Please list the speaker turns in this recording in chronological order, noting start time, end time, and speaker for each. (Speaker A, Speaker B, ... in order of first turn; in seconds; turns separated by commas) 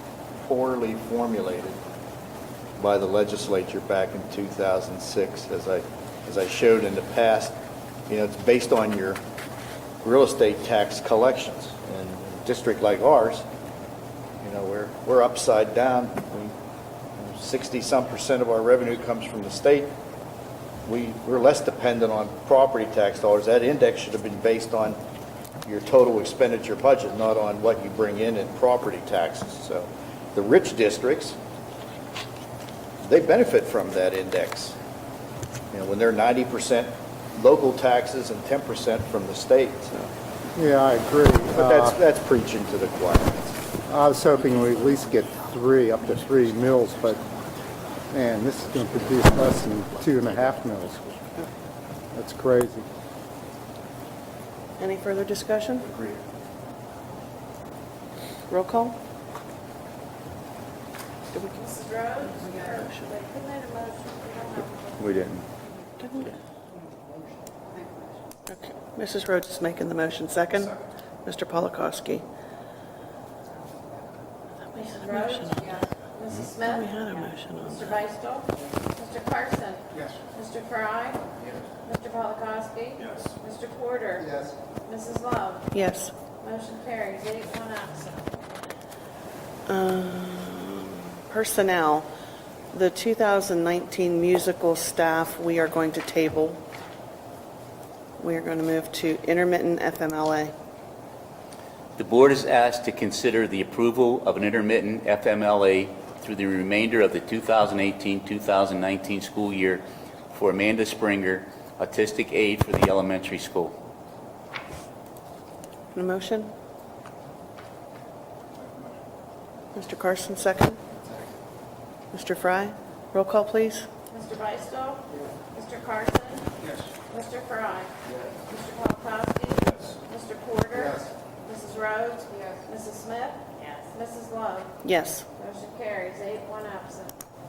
Speaker A: 0.4-1.8, Speaker A: 2.8-7.6, Speaker A: 8.1-9.2, Speaker A: 10.0-13.5, Speaker A: 14.4-16.5, Speaker A: 17.2-19.9, Speaker A: 20.9-25.0, Speaker A: 25.6-31.4, Speaker A: 33.0-34.8, Speaker A: 35.7-40.0, Speaker B: 40.6-42.0, Speaker A: 41.5-43.6, Speaker B: 43.9-47.3, Speaker B: 48.1-51.1, Speaker B: 52.1-52.9, Speaker C: 54.8-55.9, Speaker C: 58.5-59.0, Speaker C: 61.3-61.6, Speaker D: 61.6-65.2, Speaker C: 62.4-62.9, Speaker C: 66.0-66.3, Speaker C: 68.5-72.2, Speaker C: 74.7-75.8, Speaker D: 75.2-75.5, Speaker D: 76.1-76.8, Speaker C: 76.6-78.0, Speaker D: 77.7-81.3, Speaker D: 81.8-85.7, Speaker C: 85.7-86.1, Speaker D: 86.4-88.3, Speaker C: 89.7-92.1, Speaker C: 92.7-96.6, Speaker C: 98.2-100.5, Speaker E: 102.0-113.7, Speaker C: 115.9-116.5, Speaker C: 119.8-120.8, Speaker C: 122.1-123.9, Speaker D: 124.1-127.9, Speaker D: 128.5-134.8, Speaker C: 134.8-135.2, Speaker D: 135.4-137.2